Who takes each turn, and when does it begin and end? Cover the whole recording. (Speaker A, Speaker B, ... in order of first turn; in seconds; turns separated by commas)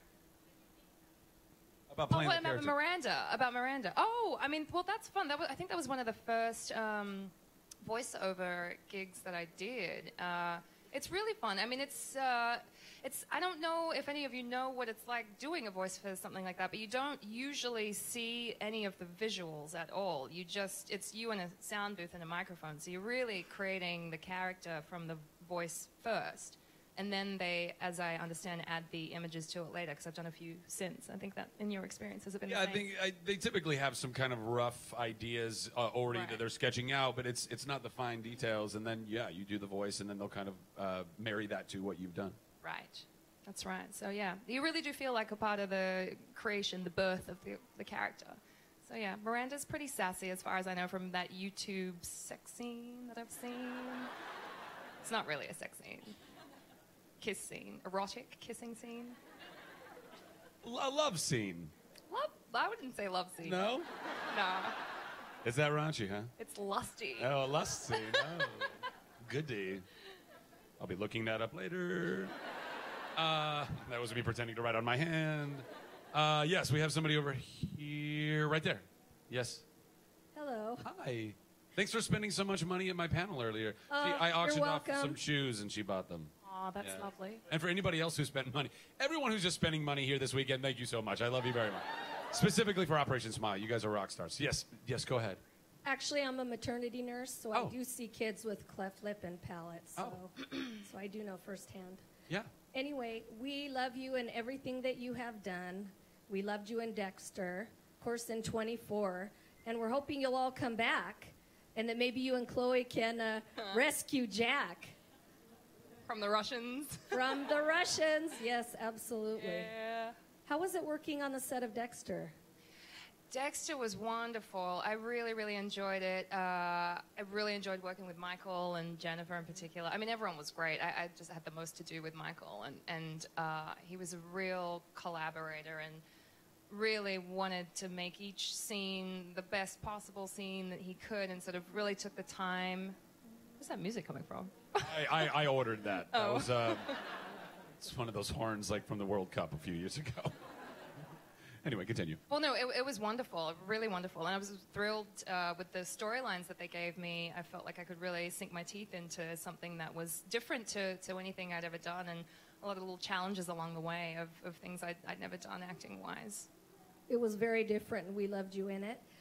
Speaker A: 1.9-2.8, Speaker B: 2.1-32.9, Speaker A: 32.5-42.4, Speaker B: 36.1-36.4, Speaker B: 42.6-54.1, Speaker B: 55.0-56.2, Speaker B: 57.2-59.2, Speaker A: 60.6-61.7, Speaker B: 62.1-63.6, Speaker A: 63.4-63.9, Speaker B: 64.3-64.8, Speaker A: 65.4-66.3, Speaker B: 66.4-67.3, Speaker A: 67.2-69.9, Speaker A: 70.8-72.3, Speaker A: 73.2-79.7, Speaker C: 80.3-80.9, Speaker A: 80.8-95.4, Speaker C: 83.9-85.2, Speaker B: 86.4-87.4, Speaker C: 95.8-102.0, Speaker C: 102.7-115.0, Speaker B: 116.1-117.1, Speaker C: 117.1-119.7, Speaker B: 119.4-120.2, Speaker C: 120.5-122.4, Speaker B: 123.3-136.0, Speaker B: 136.7-143.0, Speaker B: 143.6-145.2, Speaker A: 144.8-146.9, Speaker B: 146.1-147.0, Speaker A: 147.8-150.3, Speaker A: 151.6-152.2, Speaker B: 152.3-166.5, Speaker C: 167.1-169.0